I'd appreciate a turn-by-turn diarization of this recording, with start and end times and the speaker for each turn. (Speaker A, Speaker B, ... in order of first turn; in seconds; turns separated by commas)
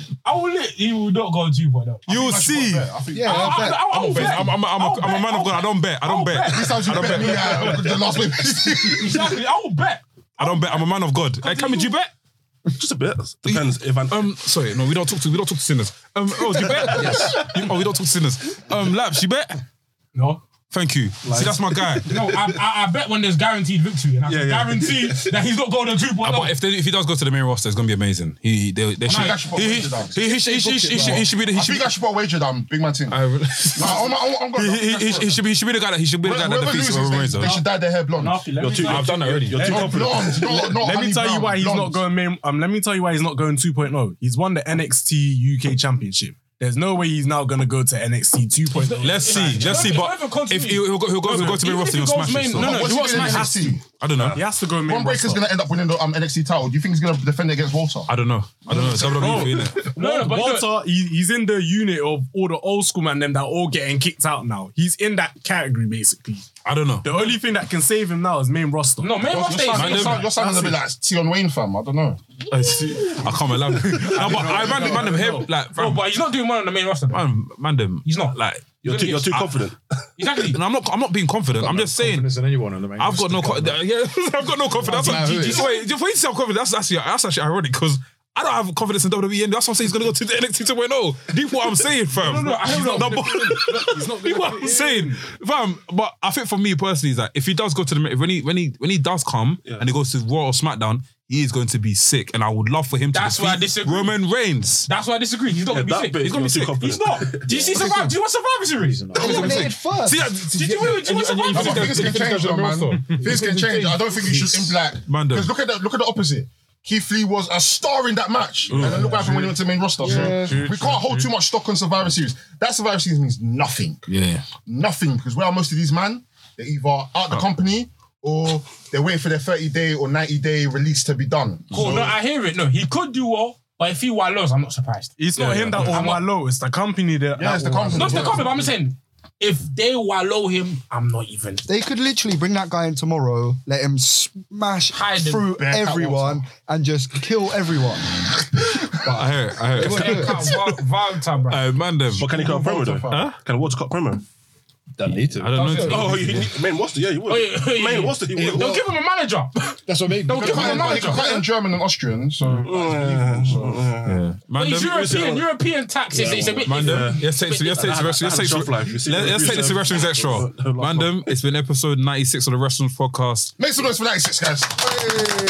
Speaker A: 0.2-2.1, Speaker B: 2.1-2.9, Speaker C: 2.1-3.8, Speaker D: 3.1-4.1, Speaker A: 3.2-10.9, Speaker B: 3.8-7.9, Speaker C: 6.5-9.4, Speaker B: 10.4-12.1, Speaker A: 11.4-12.0, Speaker E: 12.8-14.2, Speaker B: 13.4-19.6, Speaker F: 20.1-20.4, Speaker B: 20.7-22.1, Speaker F: 21.3-21.5, Speaker A: 22.1-26.5, Speaker F: 24.3-25.2, Speaker B: 26.2-31.9, Speaker A: 29.1-29.4, Speaker C: 29.1-30.2, Speaker F: 30.4-31.3, Speaker C: 31.1-33.2, Speaker B: 33.1-37.6, Speaker C: 33.8-35.4, Speaker C: 36.2-38.5, Speaker F: 38.1-49.9, Speaker E: 38.6-40.2, Speaker B: 38.7-40.6, Speaker C: 39.6-42.0, Speaker A: 48.7-53.8, Speaker B: 49.0-54.4, Speaker F: 51.3-51.6, Speaker C: 52.5-58.1, Speaker F: 53.1-53.5, Speaker F: 54.2-55.5, Speaker B: 58.1-59.9, Speaker F: 58.7-66.5, Speaker A: 60.0-60.7, Speaker B: 66.6-67.3, Speaker F: 67.0-69.2, Speaker A: 69.0-70.5, Speaker C: 69.2-72.2, Speaker B: 69.7-70.3, Speaker B: 72.5-76.0, Speaker F: 73.7-75.5, Speaker A: 74.3-74.7, Speaker A: 75.7-77.3, Speaker B: 77.1-79.7, Speaker A: 78.0-78.3, Speaker E: 78.8-79.8, Speaker A: 80.2-80.6, Speaker B: 80.4-82.3, Speaker G: 81.6-83.8, Speaker B: 83.0-104.9, Speaker G: 84.8-85.7, Speaker A: 84.8-85.8, Speaker A: 92.2-93.8, Speaker F: 92.2-95.2, Speaker A: 103.1-104.2, Speaker A: 104.9-109.7, Speaker E: 105.7-107.3, Speaker B: 106.2-107.0, Speaker G: 107.5-108.2, Speaker G: 108.8-109.7, Speaker D: 109.1-110.3, Speaker B: 109.2-113.3, Speaker A: 110.5-112.3, Speaker C: 111.5-124.0, Speaker G: 114.2-114.8, Speaker B: 115.0-115.5, Speaker F: 118.7-121.3, Speaker E: 118.7-119.0, Speaker D: 120.0-120.6, Speaker B: 124.1-124.5, Speaker C: 124.6-132.1, Speaker B: 131.7-132.0, Speaker A: 131.7-135.2, Speaker F: 135.2-138.7, Speaker B: 135.4-136.0, Speaker A: 135.7-136.2, Speaker C: 137.3-138.6, Speaker A: 137.9-141.6, Speaker D: 141.7-148.2, Speaker A: 144.9-145.5, Speaker E: 145.6-146.4, Speaker B: 148.9-150.6, Speaker D: 148.9-150.5, Speaker A: 149.7-151.6, Speaker B: 151.5-152.4, Speaker E: 152.1-154.2, Speaker C: 152.6-153.0, Speaker B: 153.1-153.3, Speaker G: 155.0-156.4, Speaker B: 155.3-156.5, Speaker A: 155.6-156.4, Speaker E: 155.8-158.8, Speaker A: 157.2-161.4, Speaker G: 159.8-161.3, Speaker C: 160.3-163.9, Speaker E: 162.6-164.2, Speaker B: 164.0-165.2, Speaker A: 164.5-168.0, Speaker G: 166.1-166.6, Speaker B: 166.6-173.5, Speaker E: 166.8-167.2, Speaker E: 167.8-171.3, Speaker C: 173.6-175.0